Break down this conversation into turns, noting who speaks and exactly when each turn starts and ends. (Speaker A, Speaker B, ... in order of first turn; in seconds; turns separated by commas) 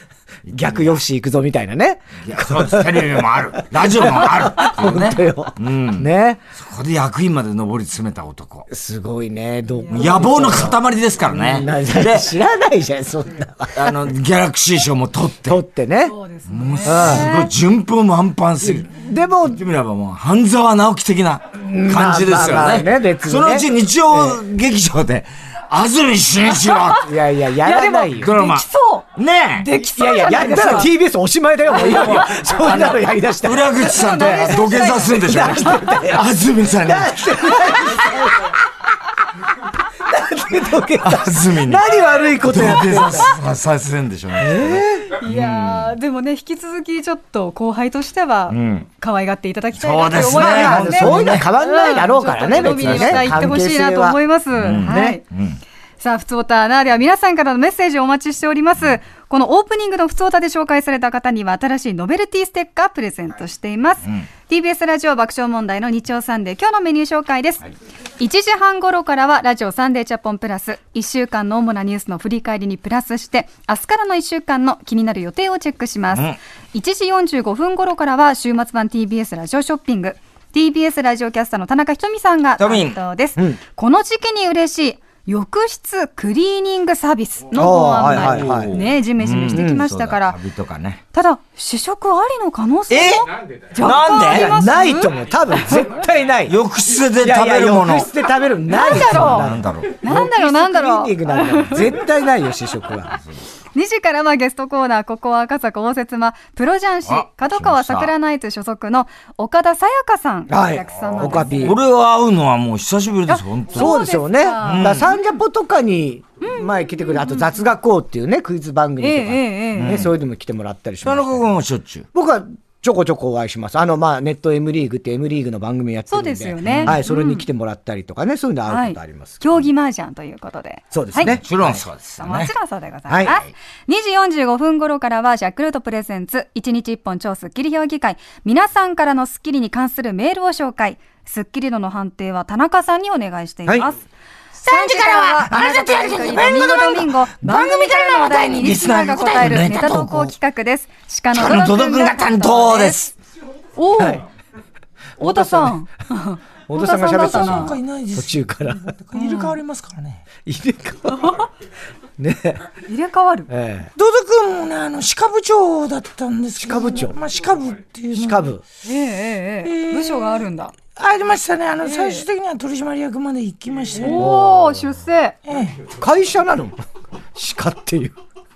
Speaker A: 0.5-1.0, Speaker B: 0.5-6.4, Speaker A: 2.2-8.7, Speaker B: 8.7-14.0, Speaker C: 9.8-10.1, Speaker A: 9.9-12.3, Speaker A: 13.7-15.6, Speaker B: 15.5-16.1, Speaker C: 16.1-17.5, Speaker A: 16.5-27.1, Speaker B: 16.8-17.4, Speaker B: 18.6-19.6, Speaker B: 21.5-24.4, Speaker C: 26.6-27.1, Speaker B: 27.0-28.3, Speaker C: 27.6-30.9, Speaker A: 28.2-29.7, Speaker B: 29.8-38.5, Speaker A: 31.7-37.8, Speaker C: 33.8-35.8, Speaker B: 39.9-43.3, Speaker A: 41.0-45.1, Speaker B: 44.4-45.2, Speaker C: 45.1-55.2, Speaker A: 48.5-48.9, Speaker A: 49.8-51.5, Speaker B: 50.3-54.2, Speaker A: 52.5-53.6, Speaker A: 54.5-55.6, Speaker B: 54.9-55.2, Speaker C: 56.0-67.6, Speaker C: 68.2-90.4, Speaker A: 82.6-83.0, Speaker B: 87.5-88.8, Speaker A: 88.0-91.0, Speaker B: 89.5-89.8, Speaker C: 91.1-95.8, Speaker A: 92.9-94.6, Speaker B: 94.2-96.6, Speaker A: 96.5-98.1, Speaker B: 97.2-103.2, Speaker C: 98.7-99.5, Speaker A: 98.9-100.0, Speaker C: 100.0-102.0, Speaker C: 103.8-111.7, Speaker A: 107.1-108.1, Speaker B: 110.5-111.8, Speaker A: 111.6-114.0, Speaker C: 113.3-115.2, Speaker B: 113.7-121.5, Speaker A: 114.6-115.1, Speaker C: 116.4-117.6, Speaker C: 119.0-120.0, Speaker A: 119.8-120.1, Speaker A: 121.0-122.1, Speaker B: 122.1-129.7, Speaker C: 126.1-127.5, Speaker A: 126.6-127.0, Speaker C: 128.7-131.4, Speaker B: 130.9-131.8, Speaker A: 131.2-132.5, Speaker C: 132.2-144.0, Speaker B: 133.1-133.3, Speaker C: 144.6-153.0, Speaker A: 144.6-150.3, Speaker A: 151.3-153.1, Speaker C: 153.8-154.2, Speaker B: 155.2-155.8, Speaker C: 155.2-157.8, Speaker B: 156.7-158.9, Speaker A: 157.2-160.3, Speaker C: 159.1-159.6, Speaker B: 160.4-161.5, Speaker B: 162.2-162.6, Speaker C: 162.9-163.5, Speaker B: 163.5-163.9, Speaker A: 164.0-168.5, Speaker B: 166.6-167.2, Speaker B: 168.1-168.6, Speaker C: 168.8-170.7, Speaker A: 169.6-174.3, Speaker C: 171.8-172.2, Speaker C: 173.9-175.4, Speaker B: 174.2-174.6, Speaker A: 175.5-175.9, Speaker B: 175.9-176.8, Speaker B: 177.3-178.2